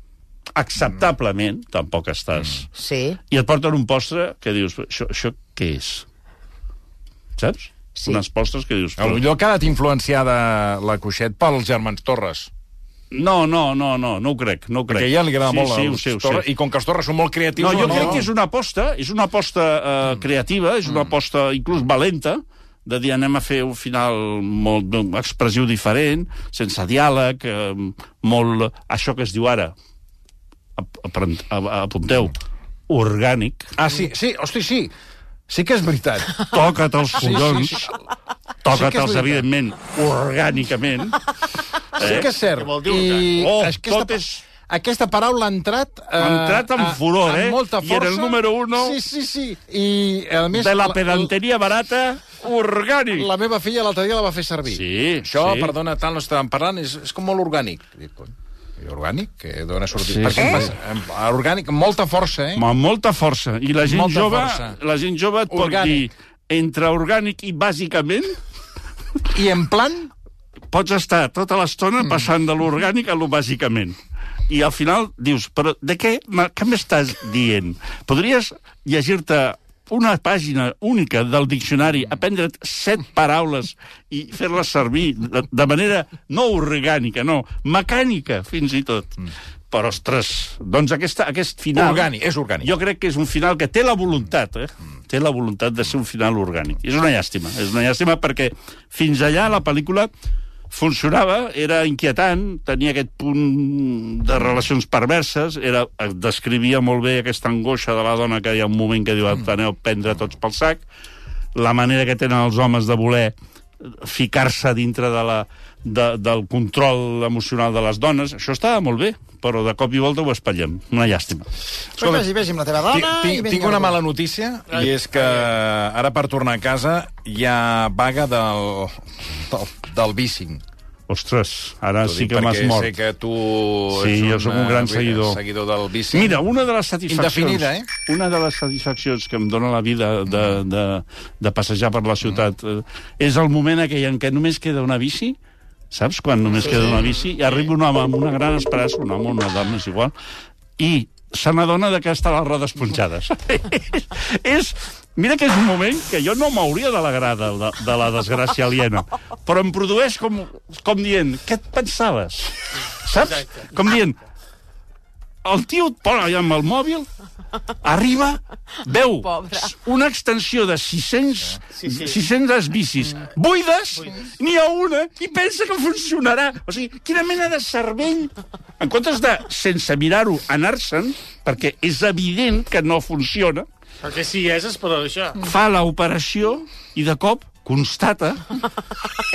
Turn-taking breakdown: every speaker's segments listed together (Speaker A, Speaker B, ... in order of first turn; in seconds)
Speaker A: 0.6-2.7, 3.3-6.1, 7.4-9.3, 13.1-16.5, 17.6-29.7, 30.8-32.4, 32.9-33.7, 36.4-37.9, 38.6-41.2, 42.0-42.3, 43.3-44.4, 46.2-49.0, 50.5-53.3, 54.7-55.7, 60.0-60.7, 62.5-68.4, 70.7-74.0, 74.5-100.1, 100.7-110.8, 111.5-121.5, 131.1-132.9, 133.9-135.4, 136.1-145.4, 145.9-150.1, 150.8-164.2, 165.4-167.1, 167.8-183.7, 185.4-188.6
Speaker B: 2.8-3.2, 8.0-8.2, 60.3-60.6, 146.7-147.0, 169.3-169.7
Speaker C: 9.0-12.5, 14.9-18.3, 33.8-34.9, 35.5-36.5, 37.1-37.9, 38.6-39.5, 42.0-51.3, 53.2-62.7, 63.8-64.8, 65.5-66.1, 69.3-70.1, 91.8-92.7, 122.0-122.3, 122.9-130.6, 132.0-136.3, 137.1-137.9
Speaker D: 42.3-43.4, 124.7-125.4, 163.2-163.7, 171.8-172.2, 184.0-185.4
Speaker E: 122.0-124.0